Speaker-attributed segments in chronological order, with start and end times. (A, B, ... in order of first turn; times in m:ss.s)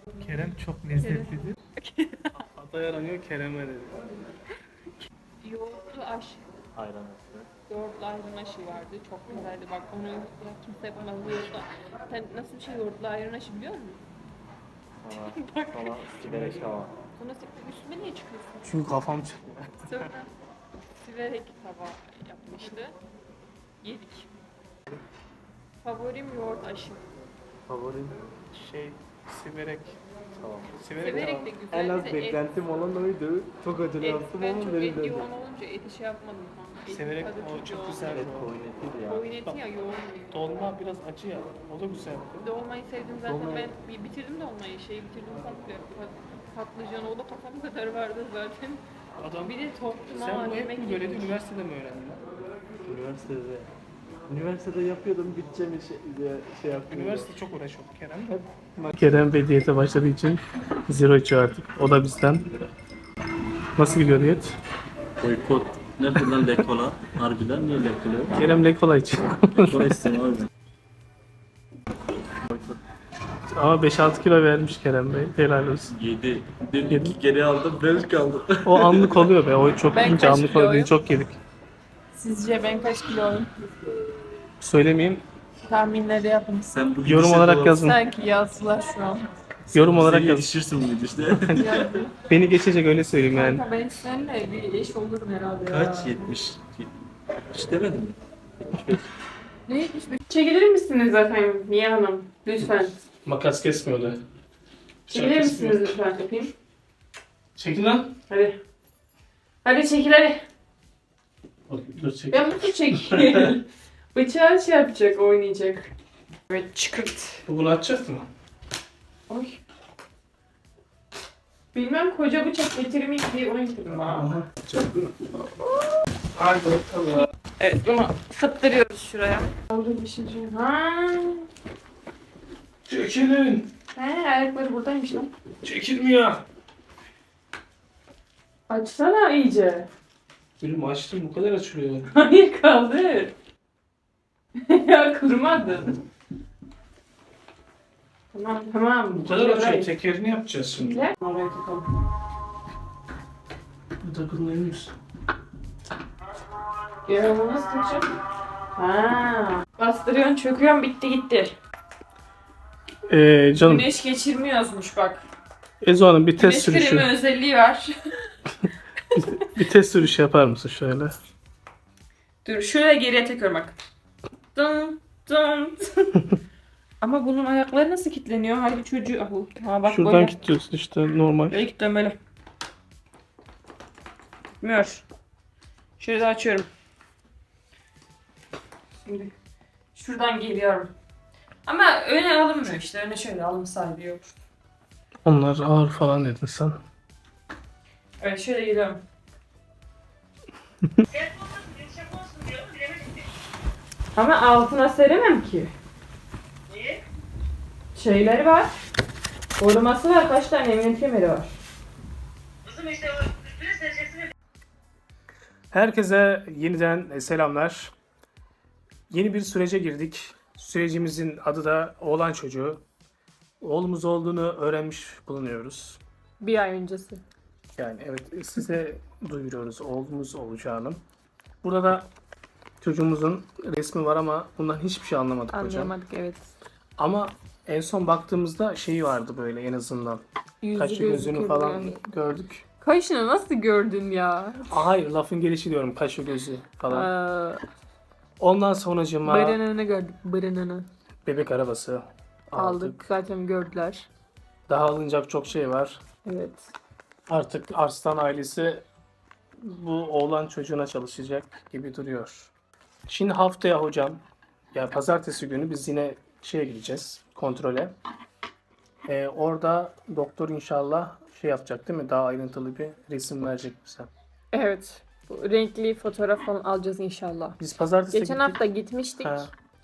0:00.2-0:01.6 A
0:01.0-0:02.4 B
0:02.4-0:04.1 A
0:05.4-0:06.4 B
0:06.8-0:07.5 C
0:07.7-0:14.0 B
0:15.0-0:16.9 C
0:15.2-0:16.1 B
0:16.2-0:16.8 A
0:17.2-0:18.7 B
0:18.6-0:20.1 A
0:19.9-0:20.3 B
0:21.0-0:23.0 B
0:23.8-0:24.3 B
0:25.8-0:27.1 B
0:27.7-0:28.3 C
0:28.5-0:30.0 A
0:30.4-0:30.7 C
0:30.7-0:31.5 A
0:31.0-0:32.6 B
0:31.7-0:35.3 C
0:34.0-0:38.3 B
0:36.9-0:38.5 A
0:38.1-0:39.2 C
0:39.1-0:40.4 B
0:40.3-0:42.5 A
0:42.4-0:48.8 B
0:43.3-0:43.6 C
0:49.2-0:49.6 A
0:49.4-0:51.4 B
0:50.1-0:52.2 A
0:52.8-0:53.7 C
0:54.3-0:57.3 C
0:56.9-1:02.5 A
1:03.8-1:04.6 A
1:05.2-1:08.4 C
1:08.3-1:10.2 A
1:09.7-1:10.5 C
1:12.5-1:12.8 C
1:13.5-1:15.9 A
1:15.9-1:19.3 C
1:16.9-1:17.2 A
1:18.6-1:21.4 A
1:19.9-1:20.9 B
1:22.1-1:23.5 B
1:24.6-1:25.2 A
1:25.7-1:26.8 B
1:26.7-1:27.8 C
1:27.0-1:28.0 A
1:27.8-1:29.3 B
1:29.7-1:30.6 A
1:29.7-1:31.9 C
1:31.5-1:32.1 B
1:32.3-1:33.6 A
1:33.3-1:36.3 B
1:35.7-1:36.9 C
1:37.5-1:38.2 C
1:38.7-1:39.1 C
1:39.7-1:43.0 B
1:43.2-1:44.2 A
1:45.1-1:46.0 A
1:45.1-1:46.5 B
1:47.6-1:48.2 A
1:48.3-1:48.6 B
1:49.6-1:50.4 B
1:51.7-1:53.5 A
1:52.3-1:55.9 B
1:56.5-1:57.4 B
1:57.5-1:58.3 A
1:59.3-1:59.6 B
2:01.7-2:04.3 B
2:03.9-2:05.1 A
2:05.4-2:06.0 B
2:06.4-2:07.3 A
2:07.6-2:11.5 B
2:12.9-2:13.7 A
2:13.9-2:15.3 B
2:15.6-2:16.4 A
2:18.7-2:19.9 B
2:20.6-2:22.1 A
2:22.1-2:23.3 B
2:24.6-2:26.0 B
2:28.3-2:29.9 B
2:29.2-2:31.0 A
2:30.8-2:31.9 B
2:34.0-2:34.9 A
2:37.0-2:38.1 B
2:38.8-2:41.6 B
2:43.1-2:43.9 A
2:43.6-2:45.2 B
2:45.8-2:47.1 A
2:46.4-2:48.3 B
2:49.2-2:51.2 A
2:52.4-2:53.8 B
2:54.6-2:56.2 B
2:57.0-3:00.4 B
2:59.8-3:01.6 A
3:01.5-3:02.2 B
3:04.6-3:05.0 B
3:06.0-3:06.7 B
3:09.0-3:09.3 B
3:10.0-3:10.9 B
3:11.6-3:14.4 B
3:15.2-3:16.8 A
3:18.2-3:19.0 B
3:21.1-3:23.1 B
3:24.2-3:25.7 B
3:27.9-3:28.7 B
3:29.6-3:31.6 B
3:32.7-3:33.1 B
3:33.6-3:34.2 B
3:35.7-3:37.9 A
3:39.1-3:42.8 A
3:43.6-3:46.0 A
3:46.4-3:47.2 B
3:47.8-3:51.0 A
3:51.6-3:52.1 A
3:52.8-3:56.0 A
3:55.5-3:56.5 B
3:57.0-4:00.2 A
4:00.6-4:02.0 B
4:00.8-4:02.6 A
4:02.8-4:04.8 B
4:04.7-4:07.1 A
4:06.9-4:07.6 B
4:08.4-4:09.6 A
4:09.2-4:10.9 B
4:11.3-4:13.0 A
4:12.6-4:14.1 B
4:14.7-4:16.0 A
4:16.3-4:16.7 B
4:17.3-4:18.9 A
4:19.6-4:22.5 A
4:23.1-4:28.0 A
4:29.1-4:34.1 A
4:34.5-4:37.6 B
4:37.6-4:38.6 A
4:38.1-4:39.5 B
4:39.2-4:39.5 A